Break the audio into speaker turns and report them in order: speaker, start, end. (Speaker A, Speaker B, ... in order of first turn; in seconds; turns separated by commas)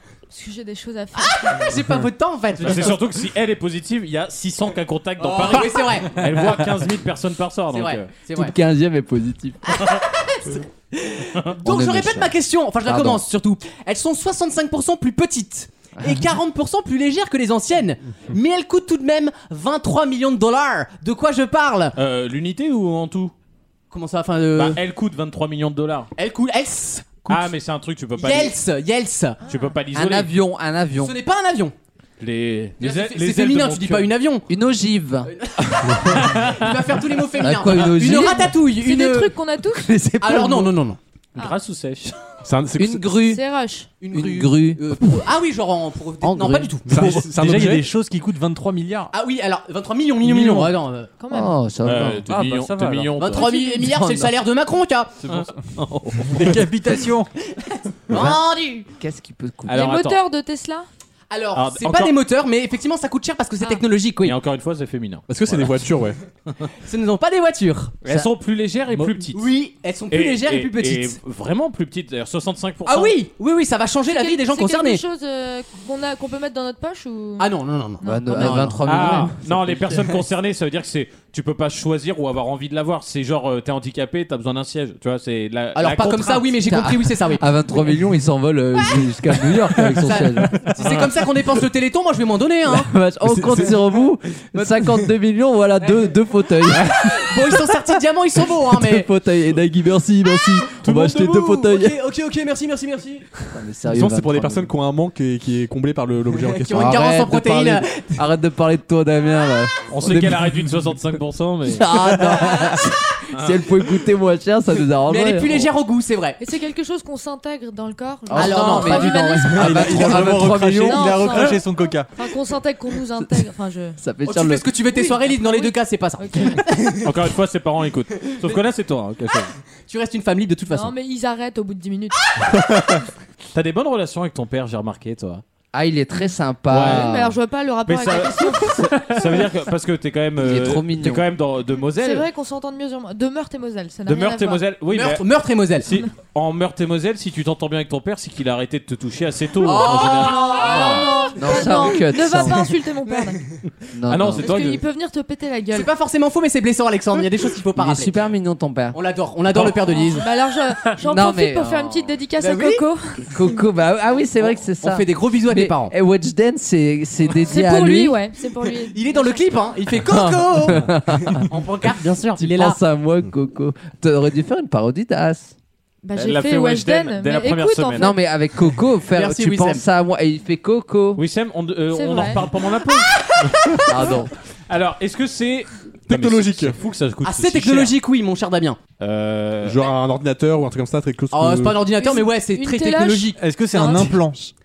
Speaker A: 0.3-1.7, Speaker B: 1.1-3.0, Speaker C: 2.6-8.1, Speaker B: 5.2-6.4, Speaker B: 7.7-8.6, Speaker D: 8.3-9.7, Speaker B: 9.7-22.0, Speaker D: 11.6-13.2, Speaker D: 16.0-16.3, Speaker C: 21.9-23.3, Speaker B: 23.9-24.8, Speaker C: 24.6-26.1, Speaker B: 26.1-27.5, Speaker C: 27.3-28.6, Speaker B: 28.1-29.4, Speaker C: 29.4-30.3, Speaker D: 29.9-31.1, Speaker B: 31.0-31.7, Speaker C: 32.2-34.1, Speaker B: 32.8-34.5, Speaker D: 34.5-35.3, Speaker B: 35.2-39.3, Speaker C: 36.0-36.6, Speaker D: 37.4-38.5, Speaker A: 38.0-39.9, Speaker D: 39.7-40.8, Speaker B: 40.2-41.0, Speaker C: 41.4-42.1, Speaker E: 42.4-43.0, Speaker D: 42.8-43.4, Speaker A: 43.2-43.9, Speaker B: 44.0-47.2, Speaker D: 44.1-45.2, Speaker D: 46.2-46.8, Speaker E: 46.9-47.9, Speaker F: 46.9-49.1, Speaker B: 49.1-51.1, Speaker A: 51.2-51.5, Speaker D: 51.3-52.3, Speaker C: 51.8-53.5, Speaker F: 52.3-53.1, Speaker B: 53.2-55.2, Speaker A: 53.4-53.9, Speaker D: 53.8-54.3, Speaker F: 55.2-55.5, Speaker C: 55.2-56.5, Speaker F: 56.2-57.3, Speaker B: 57.6-58.9, Speaker D: 58.1-58.4, Speaker D: 59.0-59.9, Speaker C: 59.6-60.2, Speaker A: 59.7-60.9, Speaker B: 61.3-64.4, Speaker C: 61.5-62.1, Speaker C: 64.2-65.9, Speaker E: 65.3-66.2, Speaker B: 66.8-68.2, Speaker C: 68.0-69.5, Speaker B: 69.3-71.2, Speaker C: 70.1-73.2, Speaker B: 72.9-75.0, Speaker A: 74.1-77.5, Speaker B: 77.4-79.2, Speaker A: 78.0-78.7, Speaker D: 78.0-80.0, Speaker C: 78.9-86.6, Speaker B: 85.7-87.5, Speaker D: 86.6-90.7, Speaker B: 89.8-93.8, Speaker D: 92.7-97.3, Speaker B: 94.5-94.9, Speaker B: 96.7-99.1, Speaker D: 98.7-102.0, Speaker B: 100.8-103.3, Speaker D: 103.5-104.7, Speaker E: 103.9-107.0, Speaker B: 106.3-108.1, Speaker D: 106.7-110.6, Speaker C: 109.9-112.2, Speaker D: 111.7-115.7, Speaker C: 113.3-113.6, Speaker B: 115.1-116.4, Speaker A: 116.4-119.9, Speaker D: 118.3-121.4, Speaker B: 118.3-120.3, Speaker F: 119.6-122.1, Speaker A: 120.8-121.6, Speaker A: 122.2-124.0, Speaker D: 124.0-124.7, Speaker B: 124.2-127.1, Speaker A: 124.9-126.6, Speaker C: 127.0-129.5, Speaker B: 129.9-130.9, Speaker A: 130.7-132.2, Speaker C: 133.5-135.4, Speaker D: 135.7-137.4, Speaker C: 136.7-137.1, Speaker A: 136.8-138.9, Speaker C: 137.8-142.3, Speaker D: 140.4-141.2, Speaker A: 141.9-144.6, Speaker C: 144.1-151.1, Speaker B: 144.9-145.9, Speaker B: 149.6-151.7, Speaker A: 150.0-153.4, Speaker D: 151.3-152.7, Speaker D: 153.9-154.7, Speaker C: 154.1-154.8, Speaker A: 154.4-155.9, Speaker B: 155.7-158.2, Speaker D: 157.7-159.0, Speaker B: 158.9-160.3, Speaker A: 159.9-163.2, Speaker D: 161.0-162.2, Speaker B: 162.4-162.9, Speaker D: 163.2-168.2, Speaker B: 164.4-165.9, Speaker A: 167.4-169.5, Speaker B: 168.9-172.8, Speaker D: 170.0-175.5, Speaker A: 176.0-178.2, Speaker C: 176.1-178.1, Speaker D: 177.9-181.2, Speaker B: 179.1-179.8, Speaker C: 181.1-183.5, Speaker A: 181.9-182.4, Speaker D: 183.8-184.3, Speaker C: 184.7-187.9, Speaker E: 186.1-186.8, Speaker B: 187.2-188.8, Speaker C: 189.0-189.9, Speaker E: 189.6-191.9, Speaker B: 191.3-193.4, Speaker A: 191.9-194.2, Speaker F: 193.3-194.5